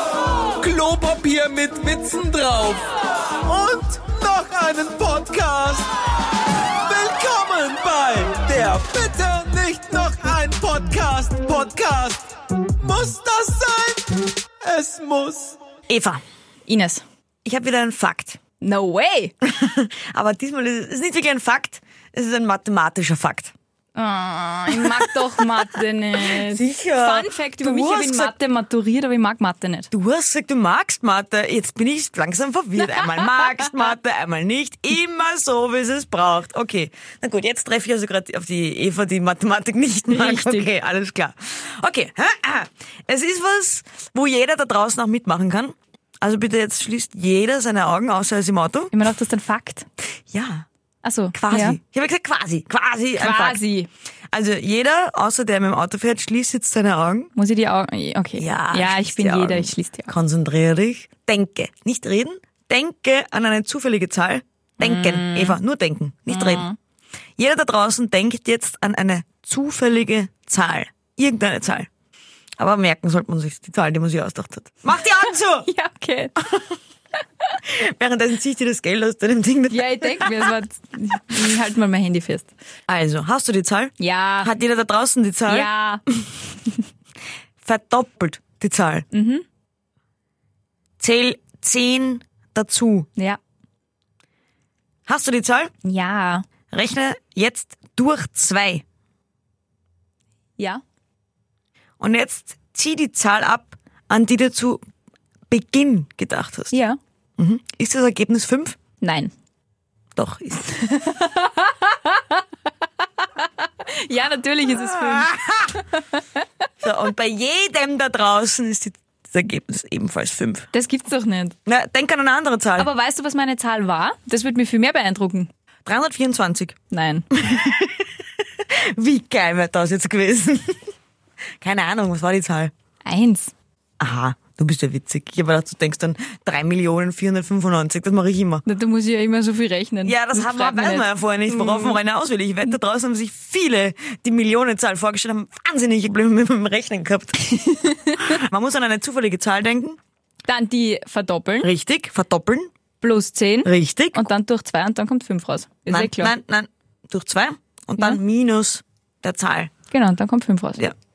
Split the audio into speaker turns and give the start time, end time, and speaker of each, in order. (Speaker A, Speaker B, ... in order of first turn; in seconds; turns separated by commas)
Speaker A: 0.6-2.9, Speaker A: 3.4-5.9, Speaker A: 6.7-15.6, Speaker B: 15.9-16.2, Speaker C: 16.7-17.0, Speaker B: 17.4-18.4, Speaker C: 18.6-19.3, Speaker B: 19.4-23.5, Speaker C: 24.0-29.9, Speaker B: 24.7-25.7, Speaker B: 26.2-28.3, Speaker B: 29.9-48.9, Speaker C: 40.1-40.7, Speaker C: 48.9-49.9, Speaker B: 50.3-50.7, Speaker C: 51.0-51.8, Speaker B: 51.3-53.6, Speaker C: 53.2-53.9, Speaker B: 54.3-57.3, Speaker C: 57.4-60.1, Speaker B: 58.4-66.7, Speaker C: 64.8-65.6, Speaker C: 66.3-66.8, Speaker B: 67.4-71.9, Speaker B: 72.6-75.7, Speaker C: 75.0-76.4, Speaker B: 76.4-76.8, Speaker B: 77.6-80.6, Speaker C: 79.7-82.5, Speaker B: 82.9-86.3, Speaker C: 84.0-84.5, Speaker C: 85.5-86.0, Speaker B: 87.6-89.1, Speaker C: 89.1-89.5, Speaker B: 91.0-93.1, Speaker B: 95.1-95.7, Speaker C: 95.8-96.5, Speaker B: 96.7-98.8, Speaker B: 102.0-104.8, Speaker B: 105.5-106.7, Speaker C: 106.7-107.0, Speaker B: 107.4-108.8, Speaker C: 109.0-109.3, Speaker B: 110.2-110.9, Speaker C: 110.8-112.5, Speaker C: 113.2-115.4, Speaker B: 114.7-115.8, Speaker C: 116.0-116.5, Speaker B: 116.8-120.7, Speaker C: 120.7-121.6, Speaker B: 121.7-122.9, Speaker C: 122.8-125.5, Speaker B: 125.8-126.8, Speaker C: 126.9-127.3, Speaker B: 127.3-130.9, Speaker B: 131.6-132.7, Speaker C: 133.1-133.5, Speaker B: 134.0-138.6, Speaker C: 138.7-142.0, Speaker B: 140.1-150.0, Speaker C: 147.6-148.3, Speaker C: 150.5-151.7, Speaker B: 151.6-152.7, Speaker C: 153.0-156.3, Speaker B: 153.6-154.2, Speaker B: 155.9-159.7, Speaker C: 159.9-160.8